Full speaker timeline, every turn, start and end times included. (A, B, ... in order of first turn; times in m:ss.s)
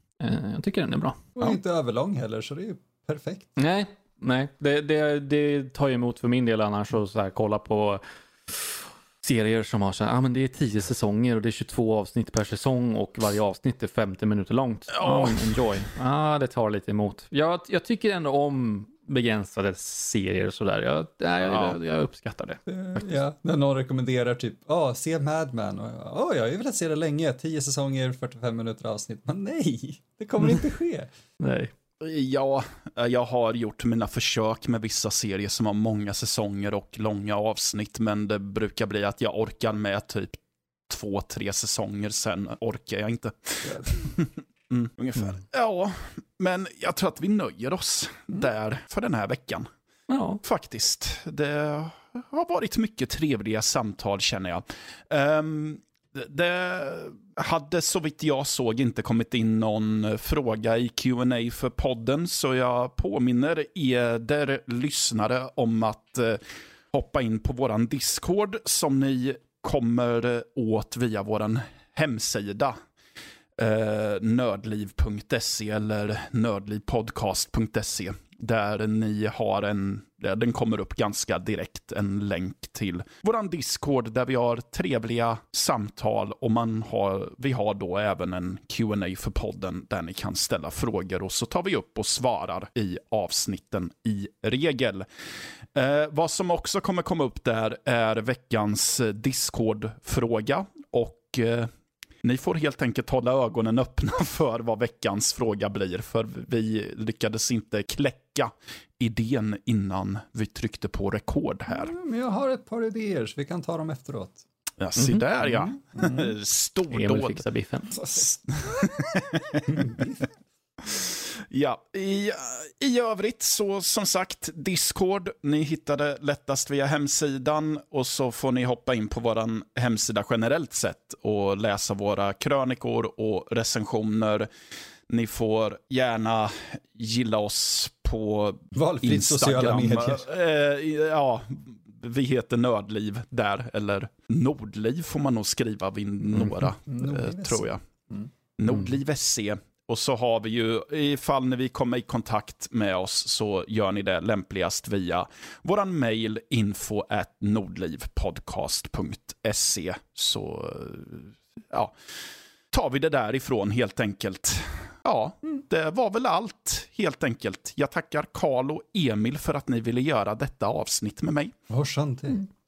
0:00.2-0:01.6 A
0:01.4-0:03.5 B
0:03.6-0:23.2 A
0:14.9-0:15.8 C
0:21.5-0:21.8 C
0:22.7-0:31.1 B
0:31.4-0:31.7 A
0:32.0-0:49.7 C
0:50.1-0:50.4 A
0:50.4-1:12.8 C
1:13.6-1:35.1 C
1:35.7-1:41.7 C
1:42.2-1:51.9 C
1:51.7-1:54.4 B
1:54.8-1:57.4 C
1:55.0-1:55.2 A
1:56.0-1:56.3 B
1:56.9-1:58.0 A
1:58.2-2:00.2 C
1:59.7-2:00.0 B
2:00.8-2:14.5 C
2:15.1-2:27.8 C
2:18.7-2:20.3 B
2:26.9-2:28.3 B
2:28.6-2:51.5 C
2:51.7-2:52.4 B